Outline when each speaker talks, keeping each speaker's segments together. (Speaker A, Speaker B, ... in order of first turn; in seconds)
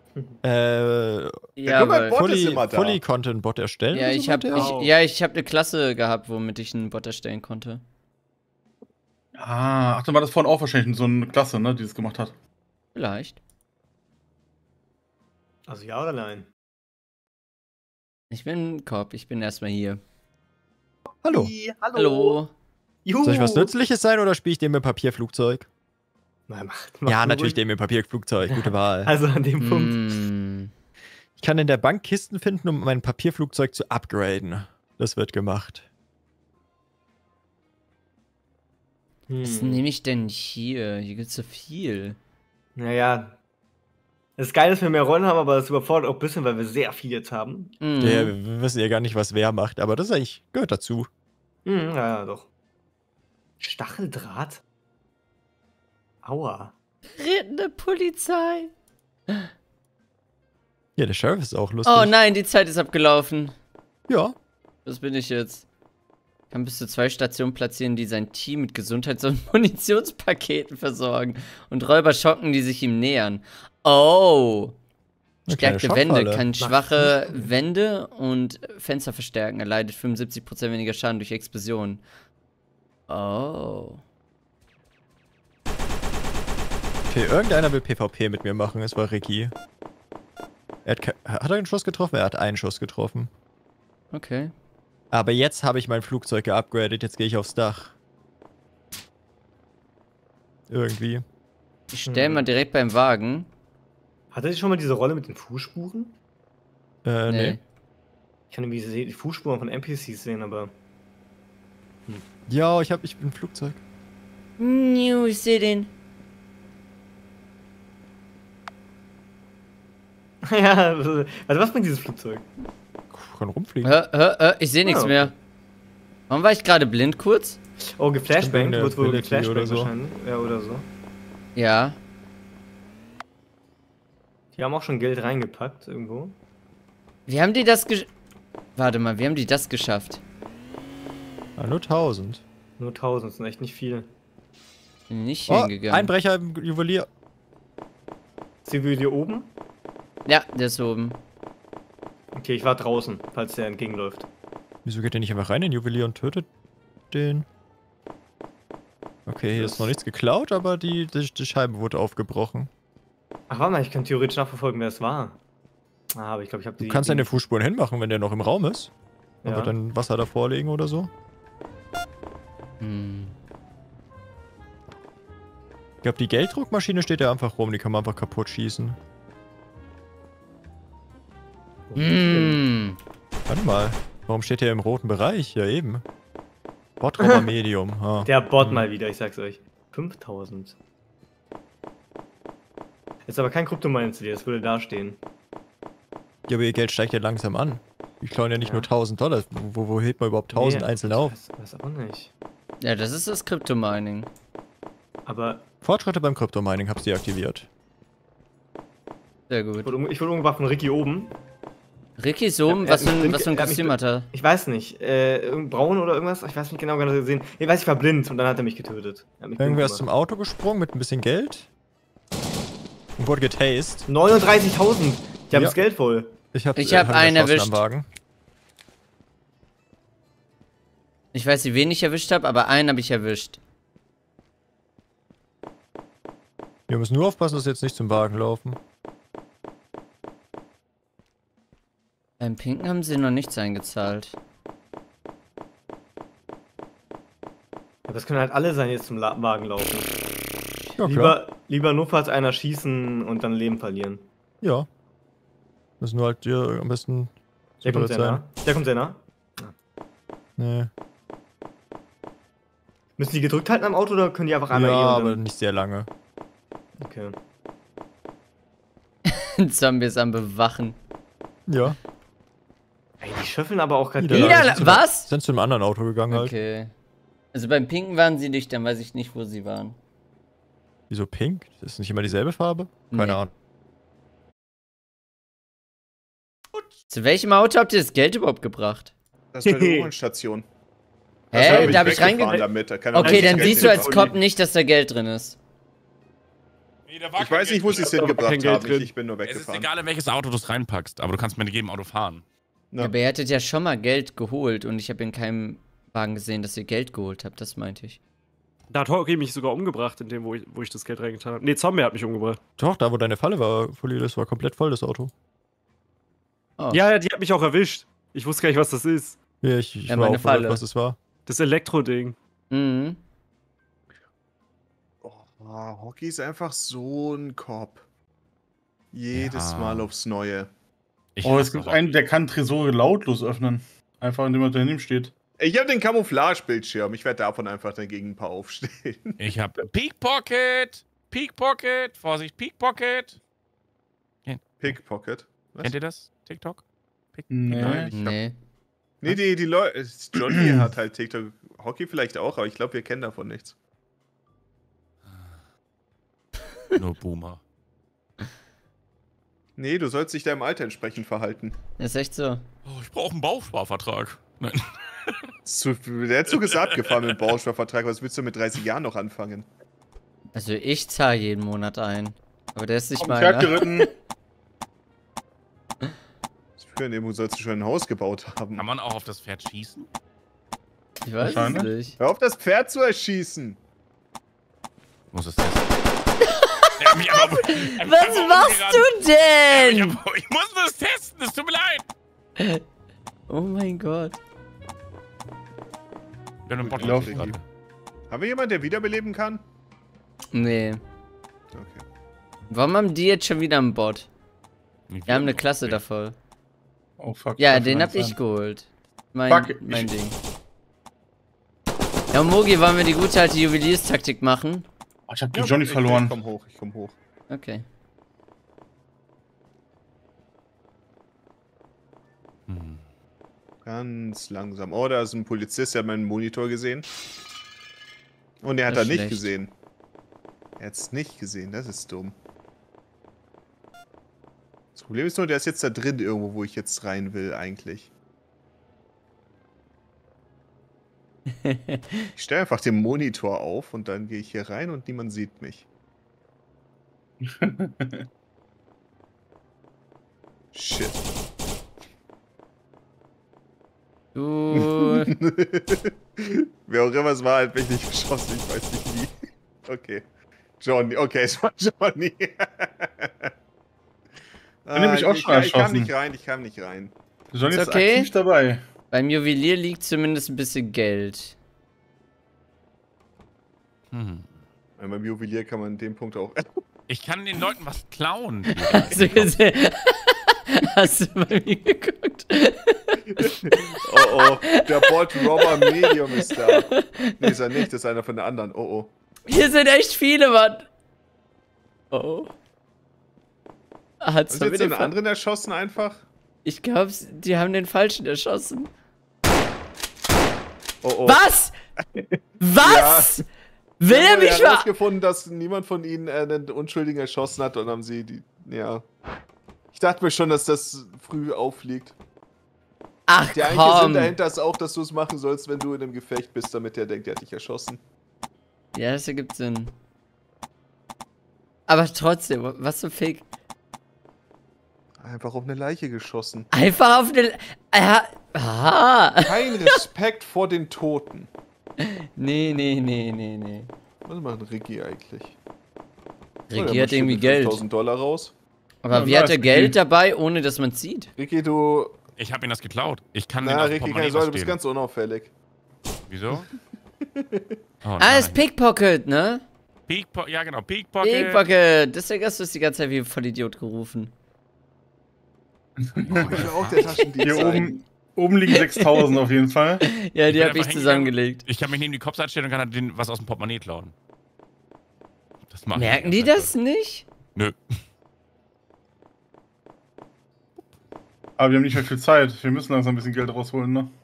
Speaker A: 0.4-1.5, 2.1-4.8, 21.2-21.5, 23.2-25.7, 27.1-29.1, 31.4-35.9, 48.0-51.1, 61.0-62.1, 64.1-64.3, 75.5-76.4, 87.1-89.5, 90.8-93.3, 95.1-97.9, 100.7-101.2, 107.0-107.6, 112.5-113.8, 123.1-123.9, 128.3-129.9, 141.6-142.4, 145.5-147.1, 154.8-156.5, 157.1-157.4, 159.2-162.7, 166.8-168.9, 169.4-171.1, 176.0-179.0, 183.5-186.0, 187.0-188.3, 196.5-201.3, 205.8-207.7, 219.6-221.7, 223.2-224.1, 225.5-225.8, 226.5-228.1, 236.9-238.8, 251.0-251.4, 254.6-254.9, 256.0-258.4, 260.6-260.9, 264.7-266.1, 271.7-272.0, 274.2-276.5, 281.1-283.5, 312.8-315.3, 319.6-321.2
Speaker B: 1.6-2.2, 3.9-7.8, 12.9-13.4, 18.3-20.0, 21.9-22.5, 29.6-30.7, 39.4-42.2, 47.8-48.4, 57.2-58.7, 61.9-63.5, 64.8-65.6, 66.5-74.7, 75.5-82.0, 83.1-84.0, 94.1-94.5, 101.9-103.5, 107.3-107.6, 114.6-115.9, 123.8-125.3, 126.3-127.6, 131.6-132.0, 137.3-138.1, 138.8-140.2, 145.1-146.1, 150.2-151.2, 172.8-173.3, 181.9-183.0, 202.8-204.3, 209.5-209.9, 212.2-214.3, 226.8-227.8, 231.3-233.6, 242.4-244.3, 269.3-270.9, 274.3-275.3, 276.3-276.9, 277.5-279.9, 283.1-283.4, 287.1-289.1, 291.5-295.6, 303.0-308.2, 316.8-317.1, 320.1-320.8, 322.7-323.2, 348.1-348.6, 362.0-362.6, 370.5-374.1, 381.2-382.1, 386.4-390.2, 393.5-394.4, 400.5-401.0, 402.7-404.3, 405.3-406.4, 407.6-410.4, 412.3-414.9, 417.5-417.8, 428.9-429.5, 441.6-442.2, 454.4-455.3, 467.7-468.3, 469.1-471.6, 478.8-487.5, 489.5-490.9, 492.1-492.5, 494.2-495.1, 496.6-498.9, 501.2-501.7, 502.6-503.4, 504.0-504.9, 513.3-514.4, 518.9-519.9, 521.9-523.4, 526.7-530.0, 532.0-533.9, 536.7-537.8, 539.0-541.3, 548.2-549.6, 551.2-554.3, 557.0-557.3, 558.7-559.3, 560.0-561.6, 565.9-567.2
Speaker C: 1.6-3.0, 289.5-290.6, 291.5-294.3, 297.4-299.9, 325.2-328.0, 329.1-330.7, 335.6-339.4, 344.8-345.9, 349.2-353.7, 359.8-361.8, 365.6-369.7, 376.8-378.8, 382.2-383.8, 396.8-397.5, 398.3-399.6, 401.7-402.0, 415.5-417.1, 423.9-427.1, 428.6-429.7, 430.8-432.4, 434.9-438.1, 442.4-445.9, 450.7-451.2, 454.7-459.3, 459.9-460.2, 460.8-463.5, 464.9-467.1, 475.0-476.6, 483.3-489.1, 494.5-496.2, 501.0-501.4, 502.1-503.4, 504.0-509.0, 509.9-512.1, 513.5-518.0, 525.2-526.7, 529.4-531.5, 534.2-535.5, 536.7-538.5, 541.4-542.1, 543.6-545.5, 547.4-547.8, 556.3-557.9
Speaker D: 4.5-4.9, 289.6-290.1, 291.6-292.6, 293.2-294.1, 297.9-299.1, 308.9-312.6, 316.9-319.4, 321.4-322.4
Speaker E: 9.4-12.3, 291.6-292.2, 331.4-335.3, 347.5-348.1, 350.4-350.8, 373.2-374.1, 381.4-381.9, 396.9-397.6, 407.2-408.4, 409.5-410.1, 415.3-416.4, 447.4-448.2, 464.9-466.1, 467.5-468.8, 539.1-539.9, 556.0-556.7, 557.4-560.0, 571.6-574.1
Speaker F: 15.7-16.5, 21.2-22.4, 23.0-23.7, 26.5-27.6, 28.5-30.0, 39.3-39.8, 42.8-43.4, 44.4-47.8, 51.6-52.5, 53.6-54.6, 56.2-56.7, 76.6-77.5, 102.1-102.5, 104.3-106.2, 108.5-110.7, 120.4-122.5, 124.8-125.3, 128.0-130.9, 134.6-136.4, 142.8-144.1, 148.6-149.5, 152.3-154.2, 159.5-159.9, 163.5-165.4, 166.1-167.3, 169.4-169.7, 181.9-182.6, 187.2-187.4, 188.2-190.8, 193.3-195.2, 198.6-198.9, 200.5-202.3, 205.2-205.7, 209.8-211.4, 212.7-220.0, 224.1-226.3, 248.1-250.1, 251.0-254.2, 257.8-259.7, 263.2-265.4, 267.0-267.4, 273.2-275.0
Speaker G: 297.1-298.8, 299.4-302.4, 329.3-330.1, 331.4-332.1, 339.4-343.4, 344.4-345.0, 345.8-348.4, 356.9-357.6, 362.9-365.3, 378.8-380.1, 385.3-385.9, 387.0-392.1, 396.6-397.6, 405.1-406.0, 422.7-423.0, 474.1-474.6, 477.1-479.5, 542.4-544.8, 546.3-546.7, 548.0-548.6, 550.1-551.6, 556.2-557.1, 560.5-564.1, 565.7-566.7, 567.5-568.0